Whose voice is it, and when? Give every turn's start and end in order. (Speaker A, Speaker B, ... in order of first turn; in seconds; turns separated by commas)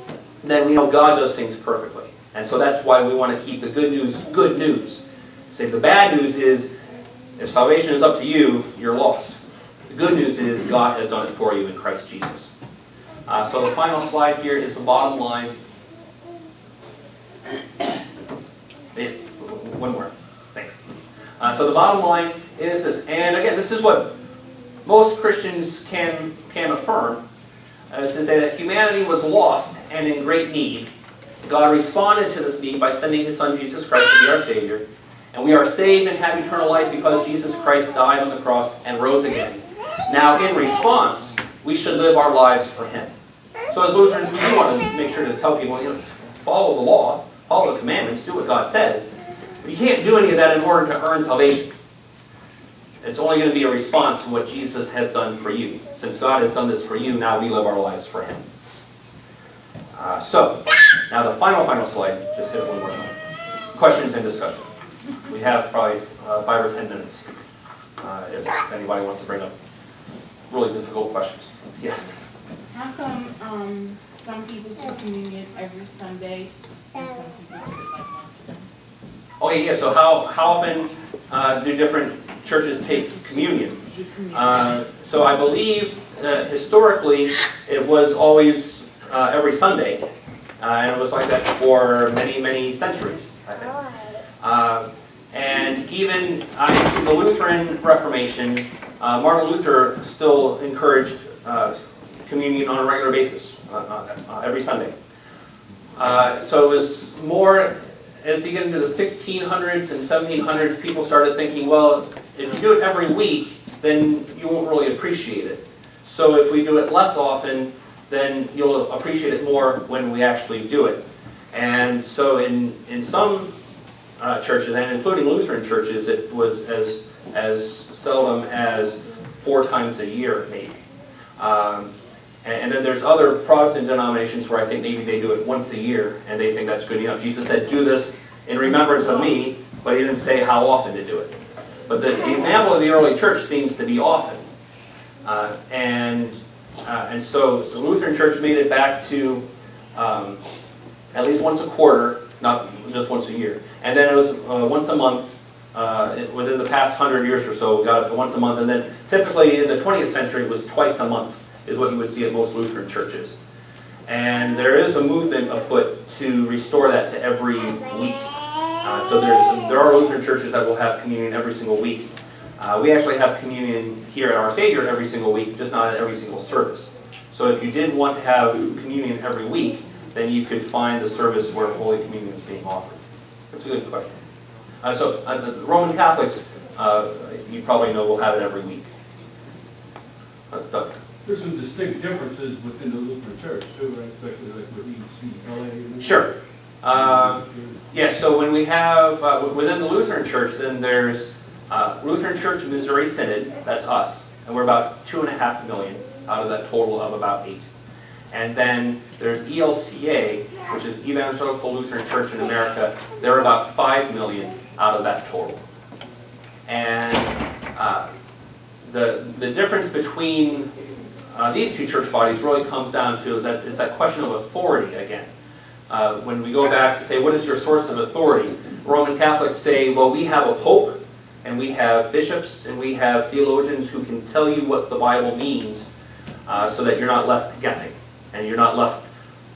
Speaker A: 0.4-6.7, Speaker A: 7.4-9.4, Speaker A: 9.9-12.5, Speaker A: 13.3-15.6, Speaker A: 18.9-20.8, Speaker A: 21.4-24.1, Speaker A: 24.9-27.2, Speaker A: 27.9-30.9, Speaker A: 31.4-43.1, Speaker A: 43.7-49.1, Speaker A: 49.6-51.7, Speaker A: 53.0-58.5, Speaker A: 59.9-63.1, Speaker A: 63.7-64.7, Speaker A: 65.3-67.3, Speaker A: 68.0-69.5, Speaker A: 70.5-72.2, Speaker B: 72.7-78.7, Speaker A: 79.4-83.8, Speaker B: 83.1-84.4, Speaker A: 84.3-90.0, Speaker A: 90.6-93.8, Speaker A: 94.4-104.9, Speaker A: 106.0-121.0, Speaker A: 121.5-123.5, Speaker A: 124.2-130.8, Speaker A: 131.4-131.9, Speaker A: 132.4-141.3, Speaker A: 141.9-144.4, Speaker A: 145.2-149.4, Speaker A: 149.9-150.4, Speaker A: 151.1-163.3, Speaker A: 164.1-168.2, Speaker A: 168.8-184.1, Speaker A: 184.8-188.9, Speaker A: 190.5-191.0, Speaker C: 191.2-196.2, Speaker A: 196.0-196.3, Speaker A: 196.8-207.7, Speaker C: 196.9-197.8, Speaker A: 208.3-215.7, Speaker A: 216.7-218.1, Speaker A: 218.8-220.7, Speaker A: 221.3-225.3, Speaker A: 225.9-235.8, Speaker A: 236.5-239.0